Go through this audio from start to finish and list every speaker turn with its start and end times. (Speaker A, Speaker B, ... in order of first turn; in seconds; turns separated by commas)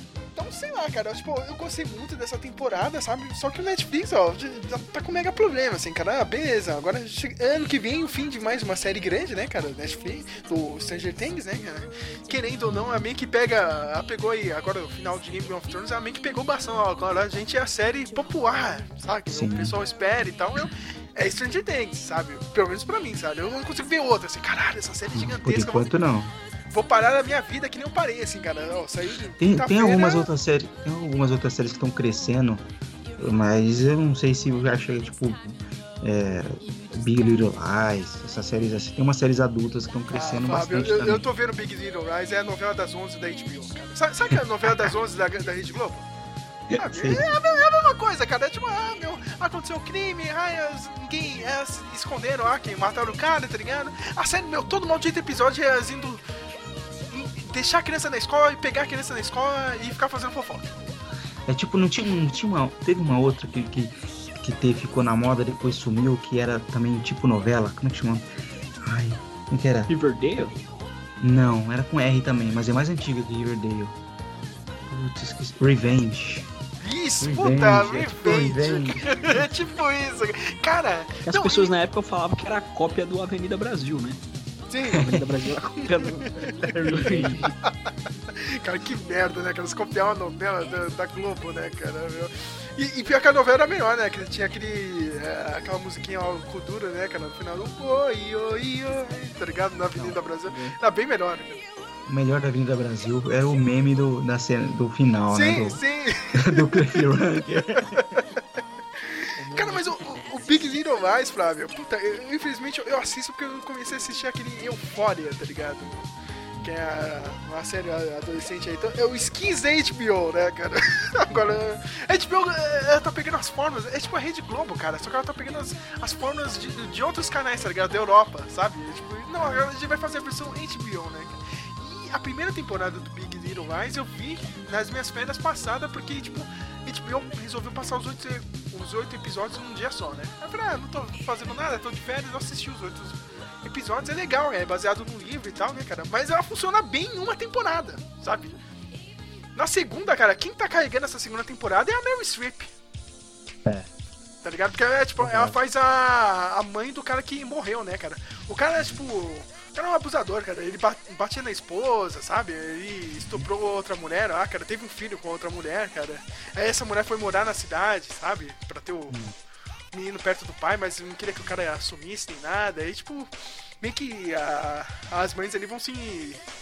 Speaker A: 0.3-25.9, Speaker B: 12.7-13.0, Speaker B: 19.3-19.7, Speaker B: 25.1-26.3, Speaker A: 26.7-30.3, Speaker B: 29.4-32.6, Speaker B: 33.2-41.2, Speaker A: 40.1-46.1, Speaker B: 46.7-47.4, Speaker A: 46.7-56.2, Speaker A: 57.1-60.8, Speaker B: 61.5-68.2, Speaker B: 68.8-70.5, Speaker C: 69.9-70.6, Speaker B: 71.2-73.9, Speaker B: 74.9-76.5, Speaker A: 76.8-81.7, Speaker B: 77.2-79.5, Speaker C: 81.2-84.2, Speaker A: 84.7-85.1, Speaker C: 84.9-87.5, Speaker B: 86.6-87.4, Speaker A: 87.2-87.5, Speaker A: 88.3-101.6, Speaker C: 100.5-100.7, Speaker B: 102.1-105.8, Speaker A: 105.3-107.0, Speaker B: 106.3-108.2, Speaker A: 107.8-108.0, Speaker A: 109.0-116.1, Speaker B: 109.4-110.0, Speaker A: 116.6-148.6, Speaker A: 149.5-152.7, Speaker A: 154.4-169.2, Speaker B: 155.2-155.6, Speaker B: 169.1-169.3, Speaker A: 169.9-173.3, Speaker A: 173.8-176.4